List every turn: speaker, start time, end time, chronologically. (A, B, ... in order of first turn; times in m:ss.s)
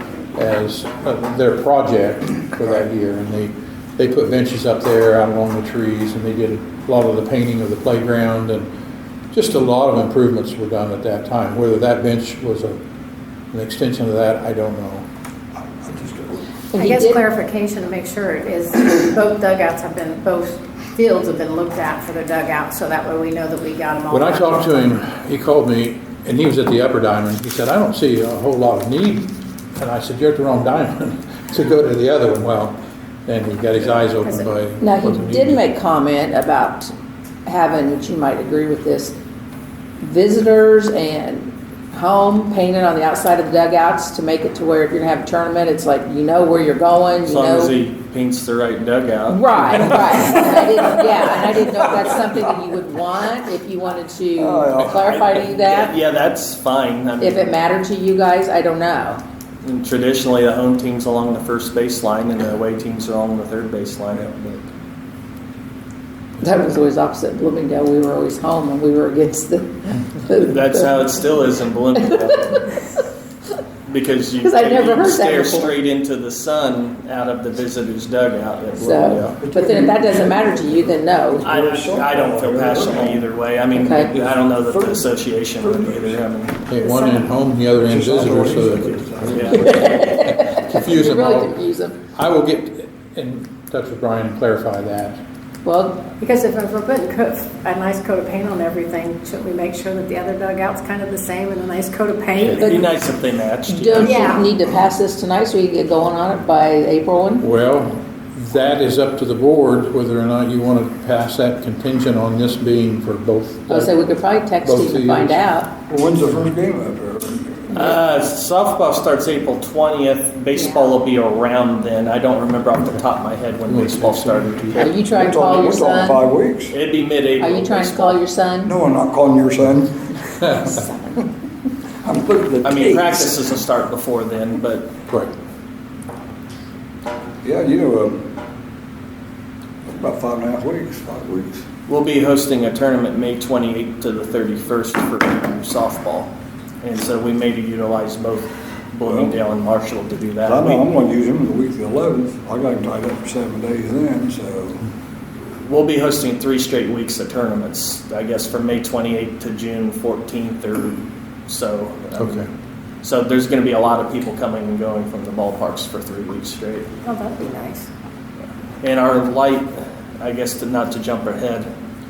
0:00.3-0:08.7 A
0:09.3-0:12.8 A
0:13.5-0:15.0 A
0:15.6-0:16.4 B
0:16.7-0:17.2 C
0:16.8-0:24.9 D
0:24.1-0:35.6 A
0:34.2-0:34.5 D
0:34.8-0:36.9 C
0:37.4-0:39.1 C
0:40.0-0:47.8 C
0:47.2-0:52.1 E
0:49.3-0:55.9 C
0:54.4-0:55.1 B
0:55.0-0:57.6 E
0:57.2-0:59.2 C
0:59.6-1:04.7 E
1:06.4-1:11.2 C
1:10.4-1:12.7 E
1:11.9-1:12.8 C
1:13.8-1:19.3 E
1:14.4-1:15.7 C
1:18.8-1:21.5 C
1:19.4-1:23.3 B
1:21.4-1:26.6 E
1:23.7-1:24.1 C
1:24.1-1:26.2 B
1:26.6-1:31.6 A
1:26.8-1:27.2 C
1:27.9-1:30.0 B
1:29.3-1:30.0 E
1:29.6-1:32.0 C
1:32.1-1:35.2 A
1:35.6-1:36.1 C
1:36.2-1:42.9 D
1:42.5-1:44.2 E
1:43.7-1:47.5 C
1:44.0-1:44.5 D
1:47.4-1:54.0 A
1:53.7-1:55.7 C
1:54.6-1:55.4 A
1:55.9-1:57.9 B
1:57.7-2:04.9 E
2:03.7-2:04.9 A
2:04.7-2:06.2 C
2:05.0-2:06.7 B
2:06.7-2:08.2 E
2:07.4-2:08.8 C
2:08.6-2:10.2 B
2:10.4-2:11.3 C
2:12.0-2:13.4 B
2:12.6-2:14.9 E
2:17.4-2:18.3 B
2:20.0-2:21.6 B
2:21.9-2:30.8 E
2:29.0-2:29.4 B
2:30.4-2:34.8 B
2:35.6-2:42.5 E
2:42.2-2:42.5 A
2:43.0-2:46.9 E
2:47.0-2:47.9 D
2:48.8-2:51.7 E